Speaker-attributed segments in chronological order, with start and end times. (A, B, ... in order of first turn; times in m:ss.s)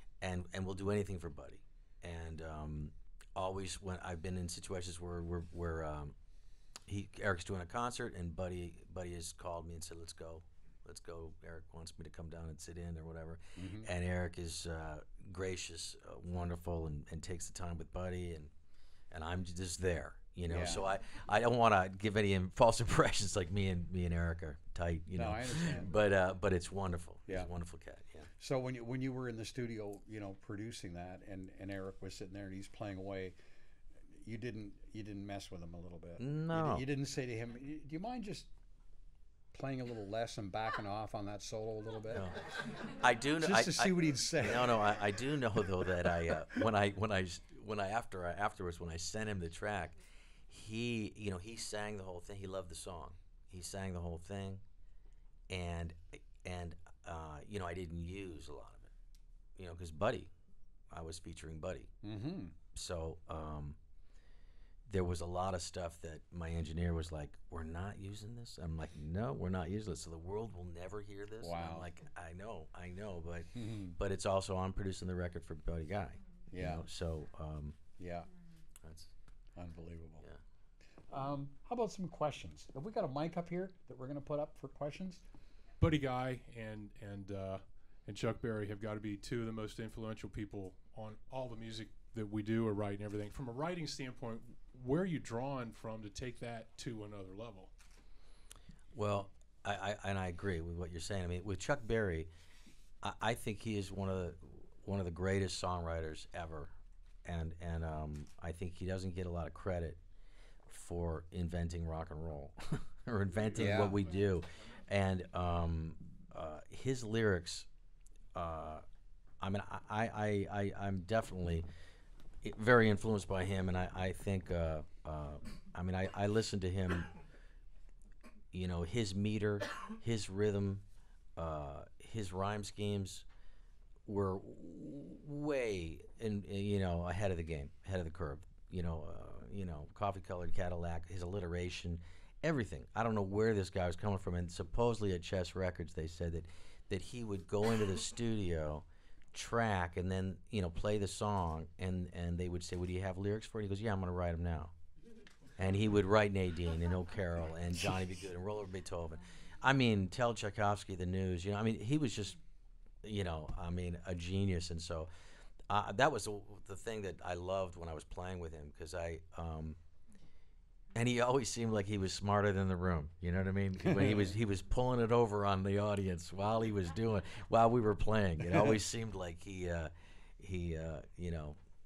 0:00.2-0:06.1 A
0:06.9-0:18.5 A
0:13.6-0:13.9 B
0:19.1-0:28.3 A
0:20.5-0:20.8 B
0:25.1-0:25.9 B
0:28.4-0:33.4 B
0:34.2-0:38.5 B
0:36.2-0:36.9 A
0:39.5-0:42.3 B
0:42.1-0:50.0 A
0:43.4-0:44.8 B
0:50.5-0:54.6 A
0:55.5-0:58.9 A
0:59.6-1:00.3 A
1:00.9-1:01.9 A
1:02.0-1:02.6 B
1:02.7-1:03.8 A
1:04.9-1:17.8 A
1:11.4-1:11.9 B
1:13.6-1:14.0 B
1:16.5-1:16.8 B
1:18.0-1:18.3 B
1:18.8-1:19.1 A
1:19.6-1:20.2 B
1:21.1-1:25.2 B
1:25.8-1:37.7 C
1:38.9-1:42.3 A
1:43.0-1:46.7 A
1:47.2-1:50.0 A
1:50.7-1:57.7 A
1:53.6-1:54.0 B
1:58.3-1:58.8 A
1:59.4-2:01.7 A
2:02.4-2:07.1 A
2:08.5-2:10.8 A
2:11.4-2:13.3 A
2:14.1-2:34.7 A
2:35.6-2:42.4 A
2:43.0-2:45.1 A
2:45.7-2:49.8 A
2:50.9-3:01.6 A
2:53.9-2:54.3 B